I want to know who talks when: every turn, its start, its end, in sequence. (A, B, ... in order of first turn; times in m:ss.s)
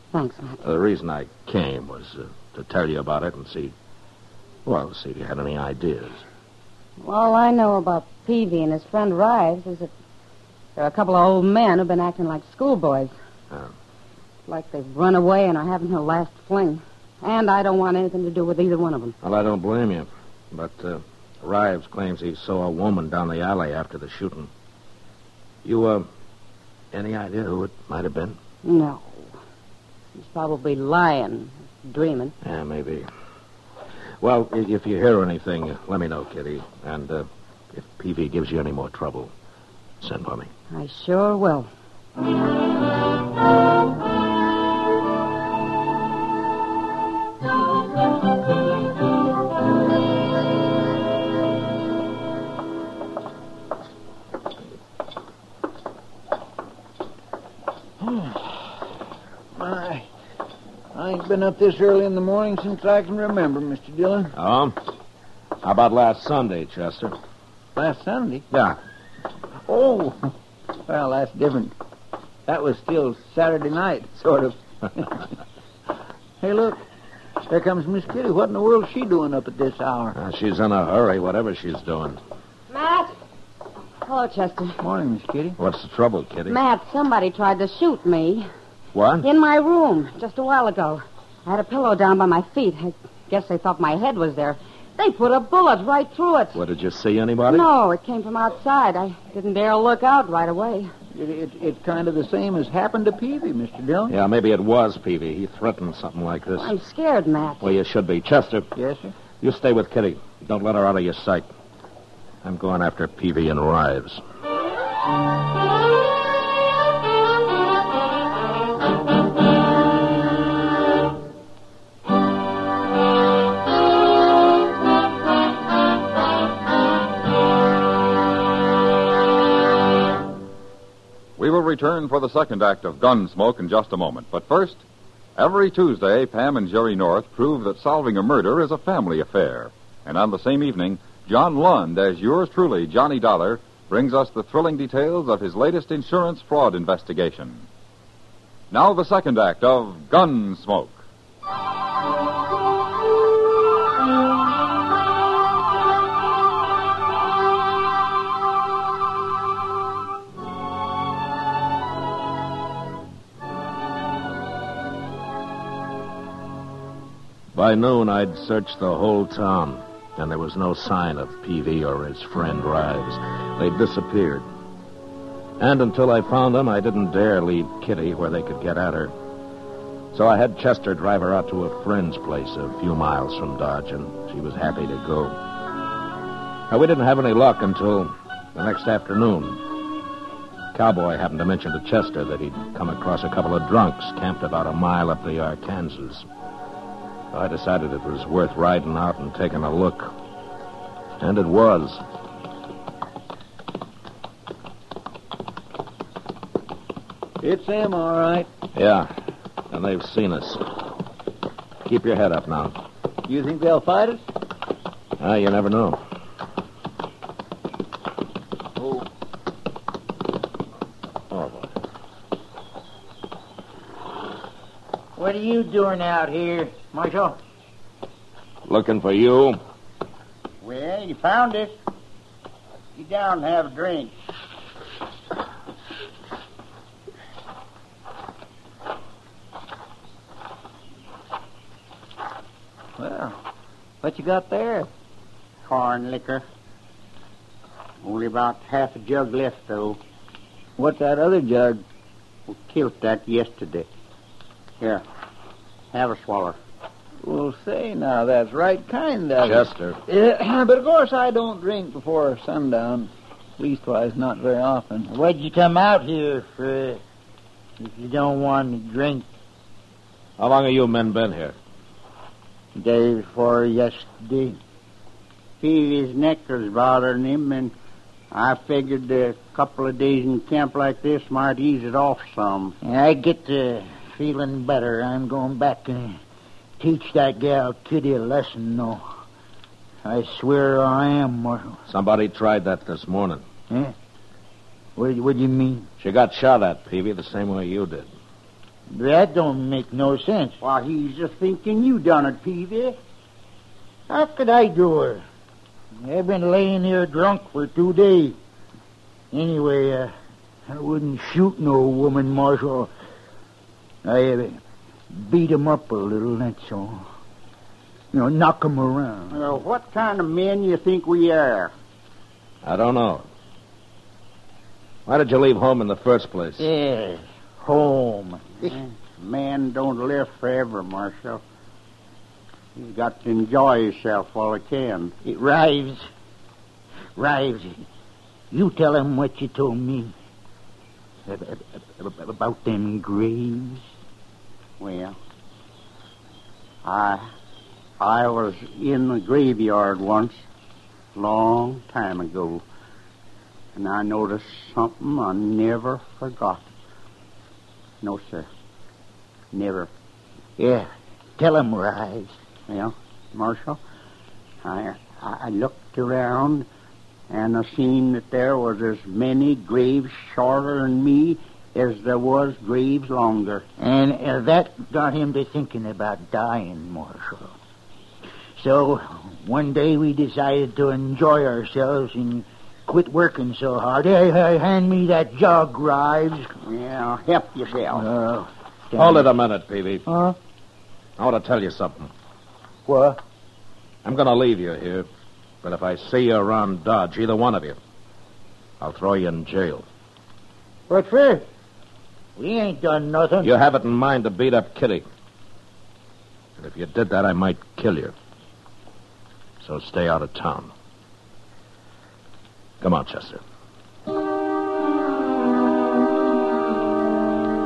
0:00.1-0:00.6 A
0:00.6-0:03.7 B
0:04.6-0:06.2 B
0:07.0-0:09.9 A
0:10.8-0:13.1 A
0:14.5-0:19.1 A
0:19.2-0:24.5 B
0:25.6-0:26.1 B
0:26.9-0:28.4 B
0:28.6-0:29.3 A
0:30.2-0:32.3 A
0:32.4-0:33.1 B
0:34.2-0:39.3 B
0:40.0-0:40.5 B
0:40.7-0:41.7 A
0:58.0-0:58.7 C
0:59.5-1:00.1 C
1:00.9-1:04.3 C
1:04.4-1:04.8 B
1:05.6-1:07.2 B
1:07.8-1:08.4 C
1:08.5-1:08.8 B
1:09.7-1:10.3 C
1:10.8-1:11.7 C
1:12.5-1:15.2 C
1:16.4-1:16.8 C
1:17.5-1:20.2 C
1:20.1-1:22.2 B
1:22.7-1:23.1 A
1:24.0-1:24.8 A
1:24.8-1:25.6 C
1:25.6-1:26.6 B
1:26.5-1:28.5 A
1:28.9-1:29.3 B
1:29.2-1:36.6 A
1:36.5-1:37.6 B
1:37.5-1:40.9 A
1:41.1-1:44.2 C
1:44.1-1:46.7 B
1:46.6-1:47.7 A
1:47.6-1:48.7 B
1:48.8-1:49.1 C
1:49.4-1:51.5 B
1:52.4-1:54.2 B
2:11.4-2:14.8 D
2:15.4-2:27.6 D
2:28.7-2:31.0 D
2:47.5-2:54.4 B
2:55.6-2:59.1 B
3:00.1-3:05.4 B
3:06.7-3:09.6 B
3:10.7-3:16.2 B
3:17.3-3:20.1 B
3:21.2-3:22.0 B
3:27.4-3:28.5 C
3:28.7-3:29.1 B
3:29.7-3:30.7 B
3:31.8-3:32.8 B
3:33.2-3:34.2 C
3:35.2-3:36.0 B
3:38.8-3:39.0 C
3:41.3-3:41.7 B
3:45.2-3:47.4 E
3:48.7-3:49.6 B
3:50.6-3:51.7 F
3:52.9-3:54.1 F
4:03.0-4:03.4 C
4:04.0-4:04.9 C
4:05.7-4:06.4 F
4:08.0-4:10.0 F
4:10.8-4:11.8 C
4:12.5-4:13.9 F
4:15.9-4:16.6 F
4:17.2-4:25.1 C
4:19.4-4:20.0 B
4:25.1-4:27.0 E
4:27.8-4:29.3 E
4:30.4-4:31.6 B
4:32.7-4:34.6 E
4:35.6-4:37.7 F
4:38.3-4:42.8 F
4:42.8-4:46.2 E
4:46.8-4:49.0 E
4:50.0-4:51.8 E
4:51.9-4:53.4 B
4:53.7-4:53.9 E
4:55.0-4:55.9 E
4:56.0-4:58.1 B
4:58.9-5:00.6 E
5:00.6-5:03.0 F
5:04.1-5:05.2 E
5:06.0-5:08.4 E
5:09.3-5:10.1 E
5:10.7-5:12.9 E
5:14.0-5:14.6 E
5:15.1-5:17.0 E
5:18.1-5:19.4 E
5:19.3-5:21.7 F
5:22.6-5:23.2 B
5:25.0-5:26.7 B
5:26.6-5:28.8 E
5:28.7-5:31.4 F
5:32.8-5:35.1 F
5:35.2-5:36.1 E
5:37.1-5:37.8 E
5:38.5-5:40.1 E
5:41.2-5:43.8 E
5:44.8-5:45.2 F
5:46.8-5:47.3 F
5:48.0-5:50.4 F
5:51.1-5:52.6 F
5:53.7-5:56.7 F
5:58.0-5:58.5 F
5:59.5-5:59.9 F
6:00.6-6:02.4 E
6:02.7-6:03.8 F
6:04.6-6:06.7 F
6:07.3-6:13.7 F
6:13.8-6:17.5 E
6:18.6-6:26.5 E
6:26.6-6:28.0 F
6:27.9-6:29.2 E
6:29.0-6:30.1 B
6:30.1-6:30.3 E
6:31.2-6:32.1 B
6:32.9-6:33.2 E
6:34.0-6:35.1 B
6:35.6-6:37.8 B
6:38.8-6:39.8 B
6:40.9-6:41.4 E
6:42.4-6:43.5 E
6:43.4-6:45.0 B
6:46.6-6:48.1 B
6:49.6-6:50.7 B
6:52.8-6:53.4 B